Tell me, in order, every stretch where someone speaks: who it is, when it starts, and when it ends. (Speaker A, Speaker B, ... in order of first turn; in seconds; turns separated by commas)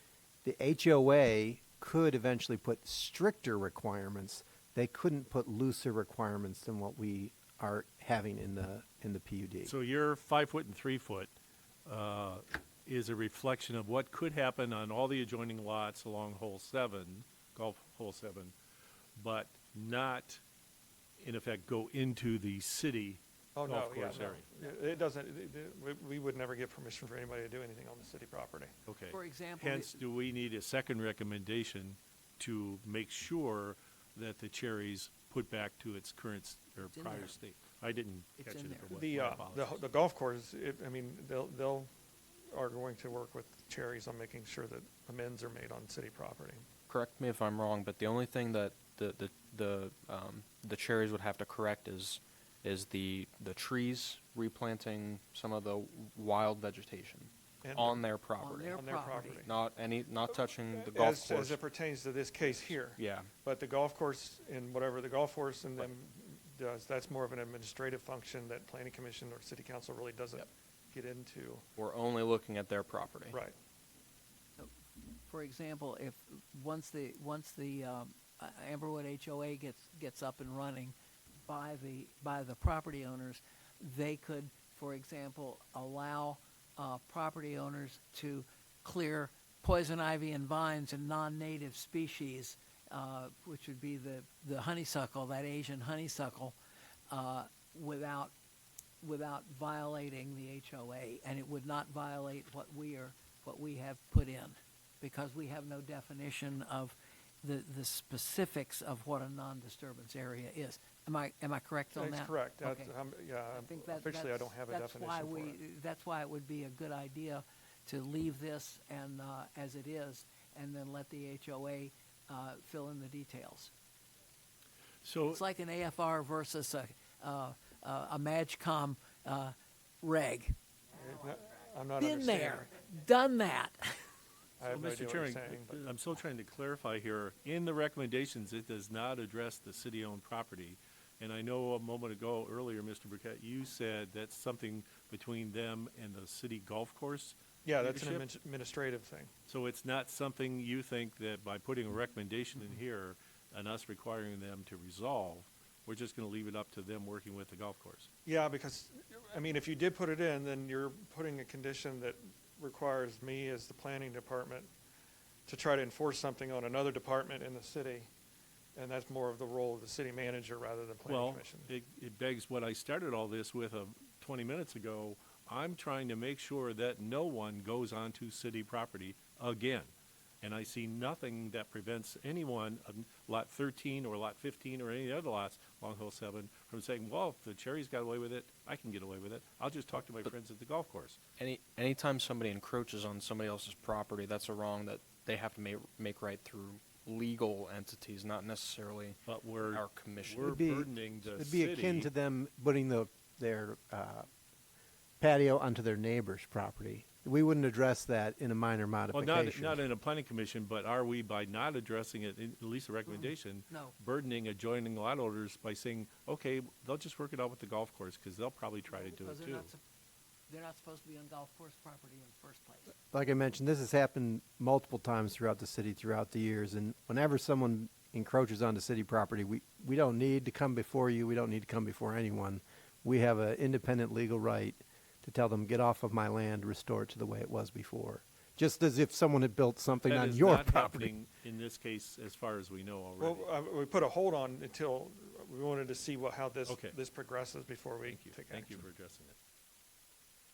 Speaker A: 0.4-9.7, Speaker B: 9.6-11.3, Speaker B: 11.9-18.6, Speaker B: 19.2-20.4, Speaker B: 21.2-24.5, Speaker C: 23.6-28.7, Speaker B: 28.9-39.9, Speaker D: 29.1-30.0, Speaker D: 36.8-37.4, Speaker D: 38.4-39.1, Speaker C: 38.9-41.9, Speaker C: 42.5-46.6, Speaker E: 46.9-58.8, Speaker C: 57.6-58.1, Speaker D: 58.4-59.5, Speaker C: 58.7-59.5, Speaker E: 59.4-61.6, Speaker C: 60.4-71.6, Speaker E: 62.9-63.3, Speaker E: 71.8-73.4, Speaker C: 73.3-73.5, Speaker D: 75.3-81.0, Speaker D: 81.5-96.6, Speaker D: 97.1-98.3, Speaker D: 99.0-112.9, Speaker C: 112.0-115.6, Speaker D: 113.5-123.7, Speaker B: 125.0-125.4, Speaker D: 125.3-130.5, Speaker C: 130.9-132.7, Speaker D: 132.0-134.0, Speaker C: 134.6-135.8, Speaker B: 134.7-148.2, Speaker C: 147.7-149.3, Speaker B: 149.5-158.1, Speaker C: 158.2-164.7, Speaker C: 165.5-168.1, Speaker C: 168.8-171.7, Speaker B: 171.1-191.2, Speaker E: 191.4-200.6, Speaker B: 199.3-202.1, Speaker A: 200.4-204.3, Speaker A: 205.2-209.8, Speaker B: 209.1-219.7, Speaker D: 213.1-214.0, Speaker D: 218.9-219.8, Speaker D: 220.5-223.0, Speaker A: 223.1-241.1, Speaker B: 240.0-243.5, Speaker C: 243.2-248.8, Speaker B: 246.7-247.0, Speaker B: 248.1-249.4